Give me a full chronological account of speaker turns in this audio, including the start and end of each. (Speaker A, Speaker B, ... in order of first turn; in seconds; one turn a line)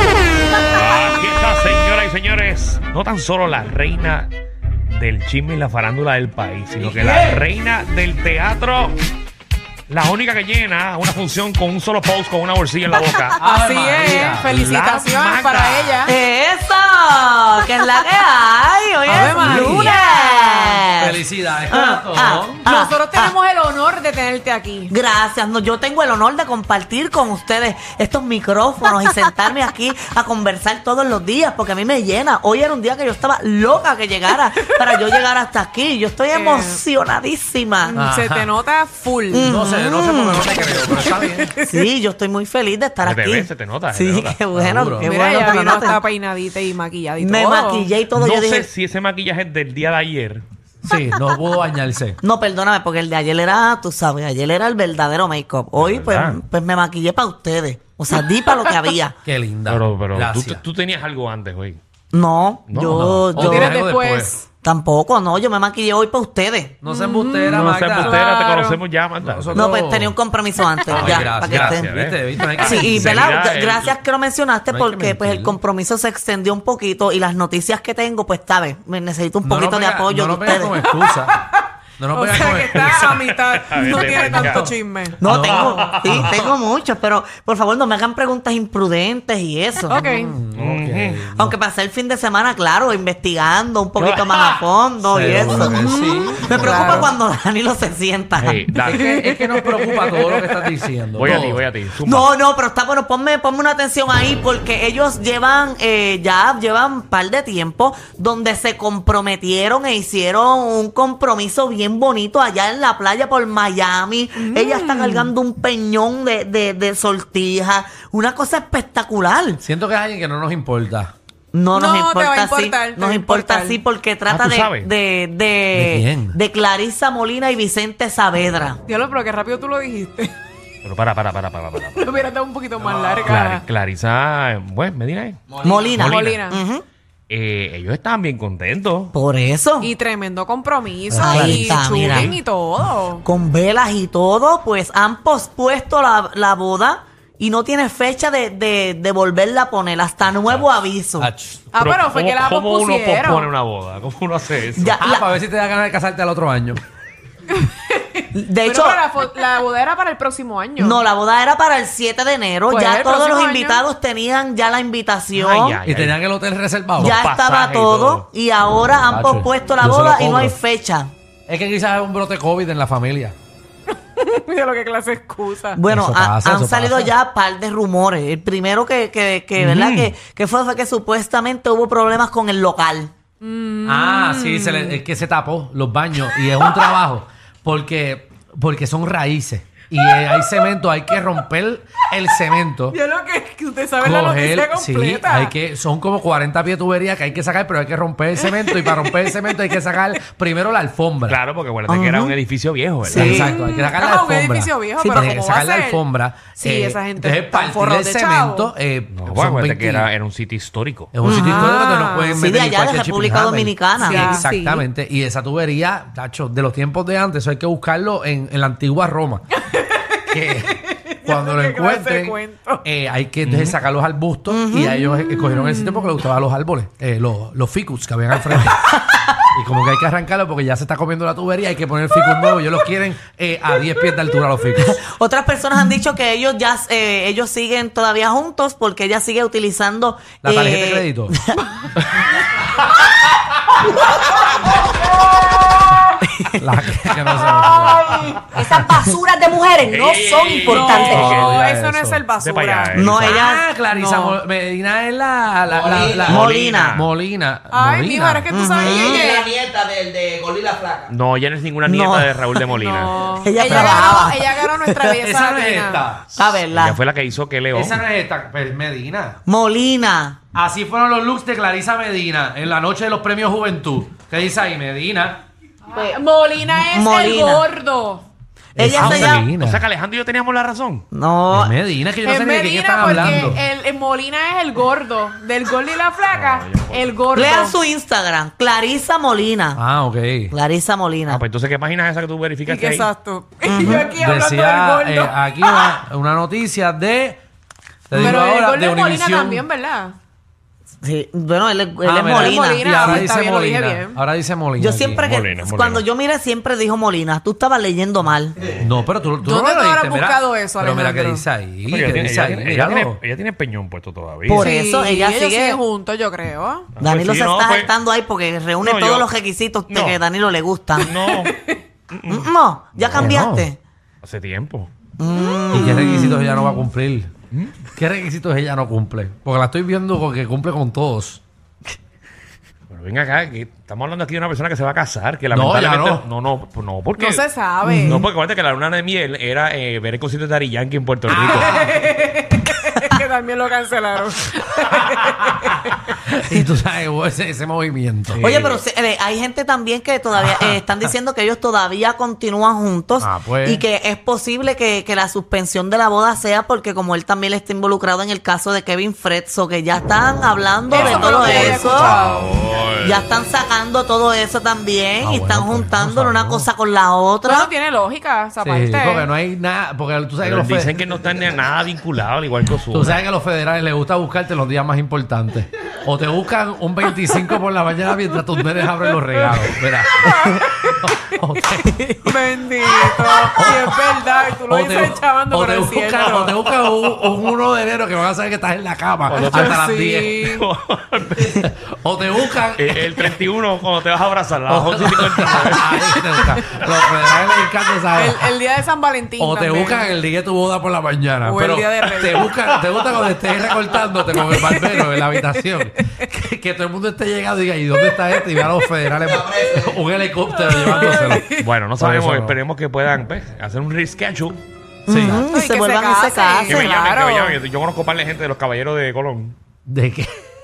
Speaker A: 0.7-4.3
Speaker A: 4.9-9.0
Speaker B: 6.9-7.4
Speaker A: 9.9-13.4
Speaker B: 13.4-14.5
Speaker C: 13.4-16.1
Speaker A: 14.5-16.1
Speaker D: 16.1-21.2
Speaker C: 19.1-20.8
Speaker B: 19.1-19.9
Speaker B: 21.0-22.6
Speaker D: 21.7-23.3
Speaker C: 22.6-24.9
Speaker D: 24.9-38.0
Speaker C: 36.3-36.8
Speaker C: 37.8-39.6
Speaker B: 38.0-38.5
Speaker D: 39.3-40.5
Speaker B: 39.3-41.5
Speaker C: 40.8-41.8
Speaker D: 41.7-46.0
Speaker A: 43.0-44.4
Speaker B: 44.5-45.1
Speaker C: 45.0-47.9
Speaker D: 47.2-48.7
Speaker A: 48.1-50.4
Speaker B: 50.8-52.2
Speaker D: 52.2-59.1
Speaker A: 55.8-56.4
Speaker B: 59.2-60.6
Speaker A: 59.7-61.8
Speaker D: 62.1-63.7
Speaker A: 62.7-63.0
Speaker B: 62.8-64.4
Speaker C: 63.3-64.4
Speaker D: 64.6-66.8
Speaker B: 66.8-68.2
Speaker C: 66.9-68.8
Speaker A: 67.5-69.6
Speaker B: 69.2-70.2
Speaker D: 69.5-71.9
Speaker B: 70.9-73.3
Speaker A: 70.9-74.0
Speaker D: 72.6-80.8
Speaker B: 74.7-75.6
Speaker B: 79.4-81.4
Speaker C: 80.8-85.2
Speaker B: 82.0-86.4
Speaker A: 82.8-84.7
Speaker D: 85.2-90.0
Speaker A: 85.3-86.4
Speaker C: 89.9-90.4
Speaker B: 90.0-91.5
Speaker A: 90.5-91.3
Speaker D: 91.3-98.6
Speaker A: 94.0-94.6
Speaker B: 95.0-97.1
Speaker C: 95.5-97.1
Speaker A: 98.4-99.1
Speaker B: 98.8-101.6
Speaker C: 98.8-100.7
Speaker A: 101.2-102.3
Speaker D: 102.0-119.6
Speaker C: 114.4-115.3
Speaker B: 119.6-121.1
Speaker D: 121.5-128.8
Speaker C: 121.7-123.8
Speaker A: 124.3-124.9
Speaker B: 125.7-126.4
Speaker C: 128.8-130.3
Speaker A: 130.8-132.1
Speaker C: 132.0-133.6
Speaker A: 132.8-136.4
Speaker E: 135.5-135.9
Speaker D: 135.6-136.8
Speaker C: 136.0-136.6
Speaker A: 137.3-139.1
Speaker D: 139.1-139.9
Speaker C: 139.8-143.2
Speaker B: 141.1-142.3
Speaker D: 141.2-142.3
Speaker D: 143.2-151.3
Speaker A: 150.2-150.7
Speaker B: 151.2-151.6
Speaker C: 151.7-153.5
Speaker A: 151.8-155.0
Speaker D: 154.8-155.3
Speaker B: 155.0-156.8
Speaker C: 157.5-161.0
Speaker D: 158.3-159.0
Speaker D: 160.8-165.8
Speaker C: 162.7-163.8
Speaker A: 165.3-166.2
Speaker B: 165.8-167.2
Speaker A: 167.0-168.2
Speaker D: 167.0-171.1
Speaker B: 169.1-170.6
Speaker B: 171.5-173.3
Speaker C: 174.0-175.8
Speaker D: 175.8-183.1
Speaker B: 175.9-177.1
Speaker A: 179.6-180.1
Speaker C: 183.4-185.0
Speaker B: 183.8-193.0
Speaker C: 186.6-186.9
Speaker C: 190.0-190.6
Speaker C: 192.9-195.5
Speaker B: 194.0-201.4
Speaker C: 198.4-199.4
Speaker A: 201.2-203.5
Speaker D: 201.9-202.3
Speaker D: 203.0-203.5
Speaker B: 203.1-210.1
Speaker C: 203.2-206.0
Speaker D: 205.0-205.3
Speaker C: 206.6-208.7
Speaker A: 209.1-211.1
Speaker B: 211.1-219.4
Speaker C: 211.2-212.5
Speaker D: 211.2-214.4
Speaker C: 214.0-214.8
Speaker C: 219.6-222.8
Speaker B: 220.3-228.9
Speaker A: 223.4-223.8
Speaker D: 224.5-224.9
Speaker C: 225.0-226.2
Speaker B: 229.5-235.0
Speaker D: 234.8-241.6
Speaker B: 240.4-241.3
Speaker D: 246.3-246.6
Speaker B: 246.6-248.9
Speaker D: 248.5-249.2
Speaker F: 248.6-249.0
Speaker F: 249.6-251.1
Speaker A: 249.8-251.6
Speaker C: 250.6-254.4
Speaker B: 251.0-252.2
Speaker A: 252.4-253.4
Speaker D: 252.9-253.7
Speaker B: 253.2-258.5
Speaker E: 255.7-256.3
Speaker A: 256.1-257.1
Speaker D: 256.2-257.0
Speaker C: 257.7-259.5
Speaker D: 258.5-259.4
Speaker E: 258.8-261.1
Speaker A: 261.1-263.1
Speaker D: 261.8-262.7
Speaker C: 262.7-266.1
Speaker D: 263.4-264.6
Speaker B: 263.7-264.2
Speaker B: 265.2-266.3
Speaker D: 266.3-267.0
Speaker A: 266.7-268.0
Speaker B: 267.7-269.4
Speaker D: 269.4-270.4
Speaker B: 270.5-275.4
Speaker C: 275.9-278.2
Speaker D: 276.9-277.7
Speaker D: 278.8-279.5
Speaker B: 278.8-279.8
Speaker A: 278.9-281.1
Speaker D: 281.1-281.7
Speaker B: 281.5-283.6
Speaker C: 282.2-287.8
Speaker A: 286.3-287.4
Speaker D: 287.3-289.8
Speaker B: 289.7-290.5
Speaker D: 290.5-291.4
Speaker A: 291.3-293.1
Speaker C: 292.7-295.9
Speaker D: 293.7-294.1
Speaker B: 294.2-297.4
Speaker B: 298.1-299.6
Speaker C: 298.1-300.1
Speaker D: 301.0-303.1
Speaker B: 302.0-305.3
Speaker C: 302.3-304.2
Speaker D: 304.8-308.7
Speaker A: 305.2-306.0
Speaker B: 308.8-313.2
Speaker C: 309.4-311.4
Speaker A: 311.9-314.7
Speaker D: 314.5-315.8
Speaker C: 314.6-316.9
Speaker A: 317.0-317.9
Speaker D: 317.0-321.1
Speaker A: 318.8-319.3
Speaker A: 319.9-320.2
Speaker A: 321.0-321.6
Speaker A: 322.1-323.4
Speaker D: 322.3-323.8
Speaker B: 323.2-323.7
Speaker A: 324.2-324.9
Speaker D: 325.2-326.4
Speaker B: 325.7-327.3
Speaker C: 325.8-326.7
Speaker A: 327.5-327.8
Speaker B: 327.9-331.4
Speaker A: 332.9-337.5
Speaker B: 335.5-336.2
Speaker C: 337.2-338.2
Speaker A: 338.0-342.0
Speaker B: 341.3-341.9
Speaker C: 341.4-346.1
Speaker B: 346.3-348.4
Speaker A: 348.3-348.8
Speaker D: 348.4-362.2
Speaker B: 353.2-353.8
Speaker C: 360.9-362.5
Speaker A: 360.9-363.2
Speaker D: 363.0-367.7
Speaker B: 365.2-366.7
Speaker C: 367.4-369.3
Speaker B: 368.6-370.9
Speaker A: 370.4-373.2
Speaker B: 372.9-382.3
Speaker C: 380.2-381.3
Speaker C: 382.2-386.6
Speaker B: 383.0-384.1
Speaker B: 384.7-390.4
Speaker A: 386.4-387.4
Speaker A: 389.3-389.8
Speaker C: 389.5-390.6
Speaker A: 390.4-391.7
Speaker B: 391.5-393.4
Speaker A: 392.8-396.2
Speaker B: 394.7-398.5
Speaker C: 398.1-400.1
Speaker B: 399.4-412.6
Speaker C: 401.4-402.5
Speaker C: 404.3-406.1
Speaker E: 409.4-409.8
Speaker C: 410.5-411.6
Speaker A: 411.6-414.6
Speaker B: 415.1-415.4
Speaker D: 415.1-416.9
Speaker C: 415.3-417.6
Speaker A: 416.7-419.6
Speaker B: 419.9-420.3